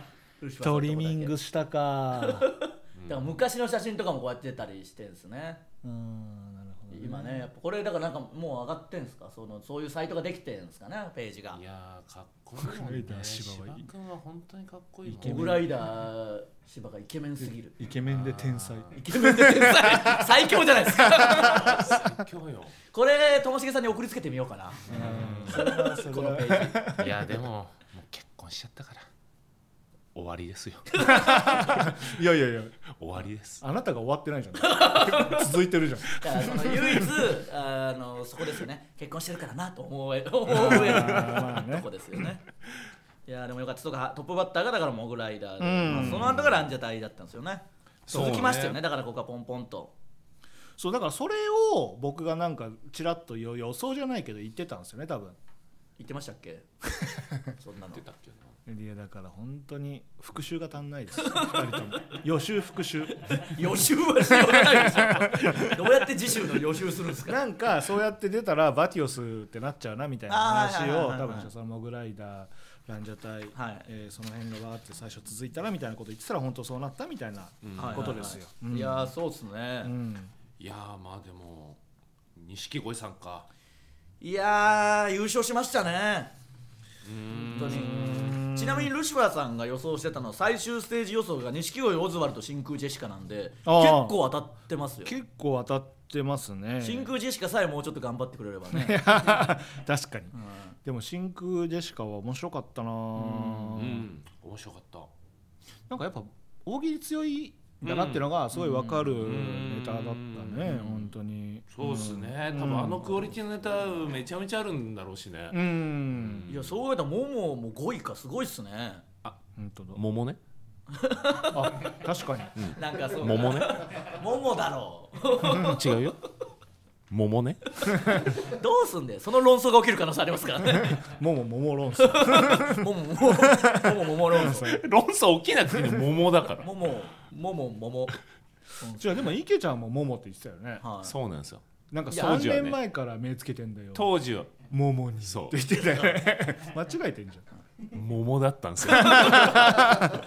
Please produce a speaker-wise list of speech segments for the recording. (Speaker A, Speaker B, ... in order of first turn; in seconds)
Speaker A: 0.4-1.4, 2.2-5.6, 6.9-11.6, 15.2-17.8, 18.9-22.0, 22.9-27.0, 30.9-31.8, 34.6-35.5, 36.1-42.4, 43.3-49.9, 56.0-56.7, 57.5-58.0, 61.2-61.6, 63.3-67.4, 70.3-71.5, 73.5-73.9, 77.8-79.9, 84.2-86.3, 87.5-95.2, 96.8-99.4, 100.3-100.8, 108.5-109.2, 110.7-111.1, 116.5-119.0, 120.9-121.8, 122.7-126.0, 127.9-131.0, 132.0-134.7, 136.6-138.2, 138.8-139.3, 140.8-141.2, 149.1-150.1
Speaker B: 0.6-2.5, 5.8-7.5, 12.6-13.9, 15.1-15.7, 17.4-20.3, 20.9-21.6, 24.9-27.4, 31.0-32.8, 33.6-37.1, 40.5-41.9, 45.6-46.5, 48.1-48.4, 50.8-55.4, 58.7-63.6, 64.5-65.6, 67.3-79.1, 79.8-80.3, 87.5-88.9, 93.7-94.2, 95.0-97.1, 98.7-100.3, 100.8-104.1, 105.9-113.3, 115.5-116.5, 119.6-120.0, 121.5-122.6, 130.9-134.8, 139.0-140.8, 141.9-144.1, 144.7-147.4, 149.0-150.1
Speaker C: 3.0-3.4, 11.5-15.6, 18.1-18.9, 21.3-22.7, 24.9-25.6, 26.9-29.1, 30.1-31.1, 33.0-33.6, 40.9-41.2, 45.9-46.6, 48.1-48.8, 57.9-58.5, 77.6-78.2, 80.6-81.8, 82.3-83.5, 87.0-88.4, 103.2-105.1, 107.8-108.3, 109.2-110.9, 111.7-115.6, 116.1-116.8, 120.0-120.4, 122.6-123.8, 125.5-126.2, 127.1-127.9, 134.5-136.7, 141.0-142.8, 143.9-144.6, 145.2-145.6, 147.9-149.7